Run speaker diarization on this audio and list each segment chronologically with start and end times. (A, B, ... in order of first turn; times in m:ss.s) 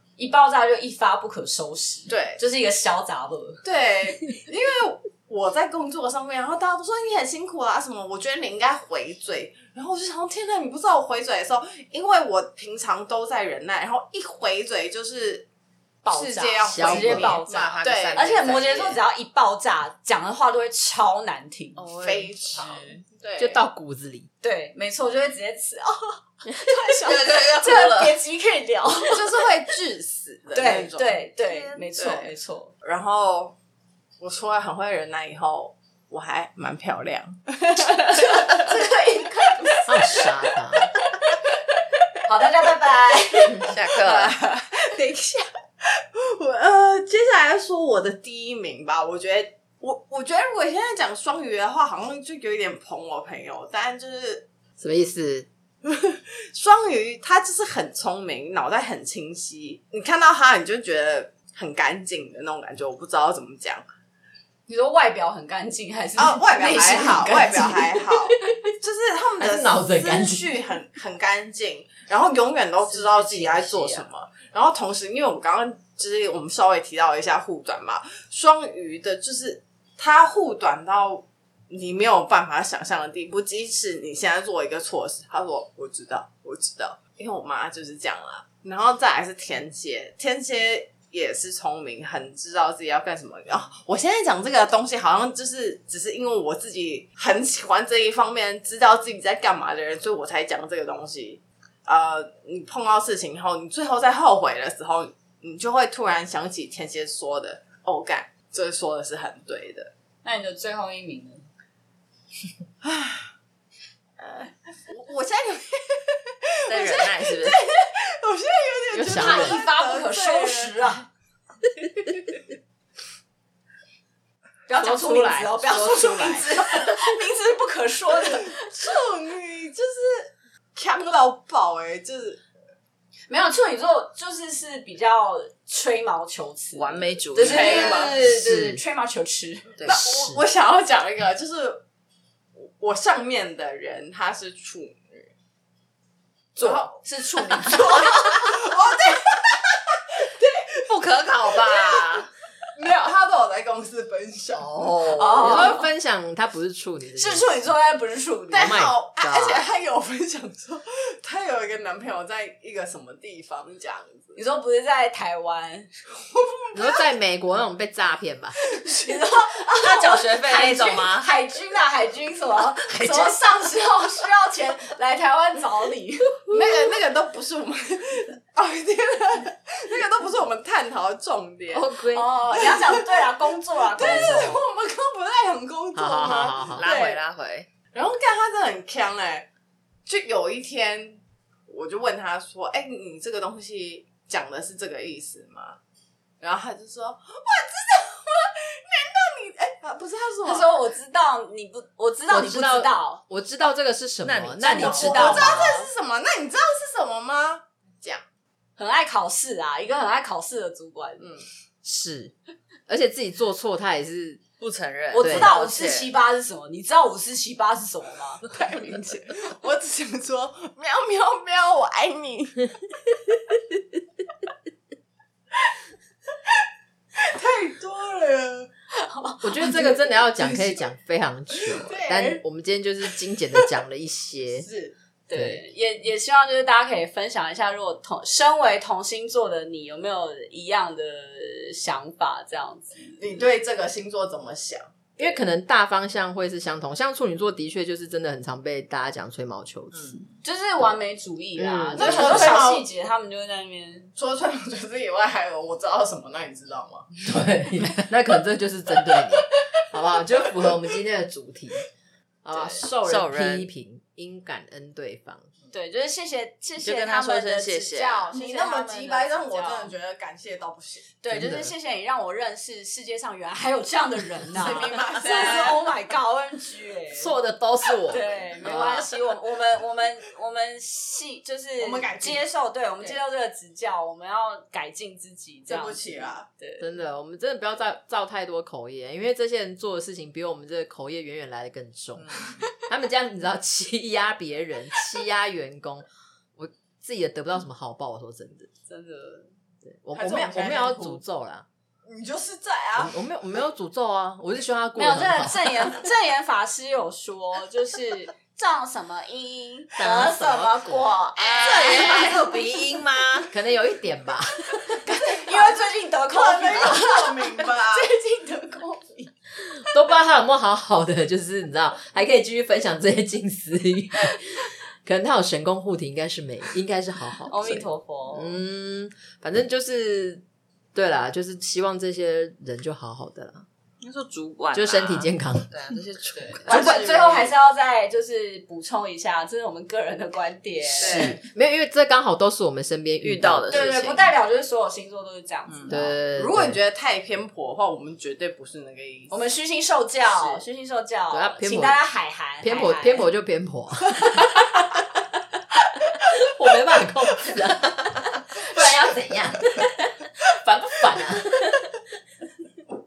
0:00.2-0:03.6 A
0:02.1-0:02.4 B
0:03.6-0:15.5 B
0:16.0-0:21.8 A
0:16.1-0:19.0 B
0:16.7-0:17.4 C
0:16.9-0:19.0 D
0:21.8-0:23.0 D
0:22.0-0:23.6 B
0:23.4-0:24.3 C
0:24.4-0:29.4 A
0:27.0-0:28.2 D
0:29.1-0:31.2 B
0:30.5-0:32.7 A
0:31.4-0:31.9 D
0:32.0-0:32.3 B
0:32.8-0:33.6 B
0:34.2-0:38.7 B
0:37.9-0:40.3 A
0:39.9-0:40.9 C
0:42.2-0:43.7 A
0:43.7-0:44.4 D
0:43.9-0:54.5 B
0:54.8-0:55.5 C
0:55.8-1:03.8 B
1:04.7-1:08.1 A
1:06.2-1:49.9 B
1:09.4-1:10.6 C
1:12.9-1:14.1 A
1:50.2-1:51.4 A
1:52.8-1:53.3 B
1:54.2-2:00.9 B
1:56.7-1:57.6 D
1:58.9-1:59.6 C
1:59.1-2:01.1 A
2:04.7-2:08.5 A
2:04.8-2:06.9 C
2:08.2-2:12.4 B
2:13.3-2:19.7 A
2:16.8-2:18.1 D
2:17.4-2:18.2 B
2:18.2-2:18.8 C
2:19.8-2:20.4 C
2:19.8-2:21.8 B
2:22.6-2:25.3 B
2:26.6-2:27.0 B
2:26.6-2:28.5 A
2:27.5-2:30.9 B
2:30.9-2:32.3 D
2:31.5-2:32.2 B
2:32.8-2:35.4 B
2:34.6-2:35.6 D
2:35.1-2:35.9 A
2:35.4-2:37.5 C
2:37.2-2:38.8 A
2:38.5-2:44.4 B
2:38.5-2:39.6 C
2:44.4-2:45.9 A
2:46.3-2:47.0 B
2:46.7-2:48.6 C
2:48.8-2:49.2 B
2:49.0-2:56.5 A
2:49.8-2:51.3 D
2:52.8-2:53.4 D
2:56.5-3:01.9 B
3:01.7-3:02.2 C
3:02.1-3:04.6 A
3:02.5-3:03.2 B
3:03.8-3:07.2 B
3:06.0-3:06.9 C
3:06.8-3:07.7 D
3:07.9-3:09.5 B
3:10.1-3:15.8 B
3:16.4-3:20.8 B
3:20.4-3:23.2 A
3:22.3-3:25.8 C
3:24.2-3:25.3 D
3:24.6-3:25.9 A
3:24.6-3:28.2 B
3:28.8-3:31.3 A
3:31.2-3:31.5 B
3:31.8-3:32.3 C
3:32.9-3:34.4 C
3:34.6-3:36.1 D
3:35.1-3:38.4 A
3:35.2-3:35.6 C
3:38.4-3:42.7 B
3:47.2-3:48.7 B
3:48.9-3:49.9 A
3:49.4-3:54.7 C
3:50.3-3:50.8 B
3:51.5-3:52.4 B
3:54.6-3:55.0 B
3:55.3-4:03.2 A
3:55.3-3:55.6 C
4:03.2-4:05.3 B
4:05.2-4:10.2 C
4:10.4-4:14.1 A
4:11.6-4:12.6 C
4:12.0-4:12.9 B
4:14.2-4:17.1 B
4:17.2-4:21.9 C
4:22.4-4:25.4 C
4:22.5-4:22.8 A
4:23.0-4:23.7 D
4:25.7-4:29.9 A
4:26.8-4:28.3 D
4:28.3-4:31.1 B
4:31.2-4:37.4 A
4:31.3-4:31.7 C
4:34.4-4:35.9 B
4:37.1-4:39.1 C
4:38.1-4:46.9 A
4:41.8-4:42.4 B
4:45.7-4:46.5 B
4:46.8-4:56.1 C
4:52.2-4:52.6 B
4:56.6-4:58.7 C
4:58.9-4:59.5 A
4:59.9-5:01.7 C
5:00.1-5:01.2 B
5:02.0-5:03.2 B
5:03.0-5:06.0 C
5:05.0-5:12.4 A
5:10.0-5:11.1 C
5:11.4-5:13.5 D
5:11.8-5:12.3 B
5:13.5-5:15.0 C
5:15.0-5:19.3 A
5:15.3-5:18.1 B
5:19.9-5:30.4 C
5:27.5-5:28.6 A
5:30.9-5:33.7 C
5:34.0-5:37.0 D
5:34.7-5:35.8 C
5:36.4-5:41.4 A
5:36.7-5:37.5 B
5:41.0-5:41.4 B
5:41.0-5:44.2 C
5:43.2-5:44.1 D
5:43.7-5:46.1 A
5:45.7-5:46.0 D
5:45.9-5:46.8 C
5:46.3-5:49.3 B
5:49.3-5:53.3 A
5:50.3-5:50.6 B
5:51.3-5:52.0 C
5:52.6-5:54.5 C
5:56.3-6:02.0 C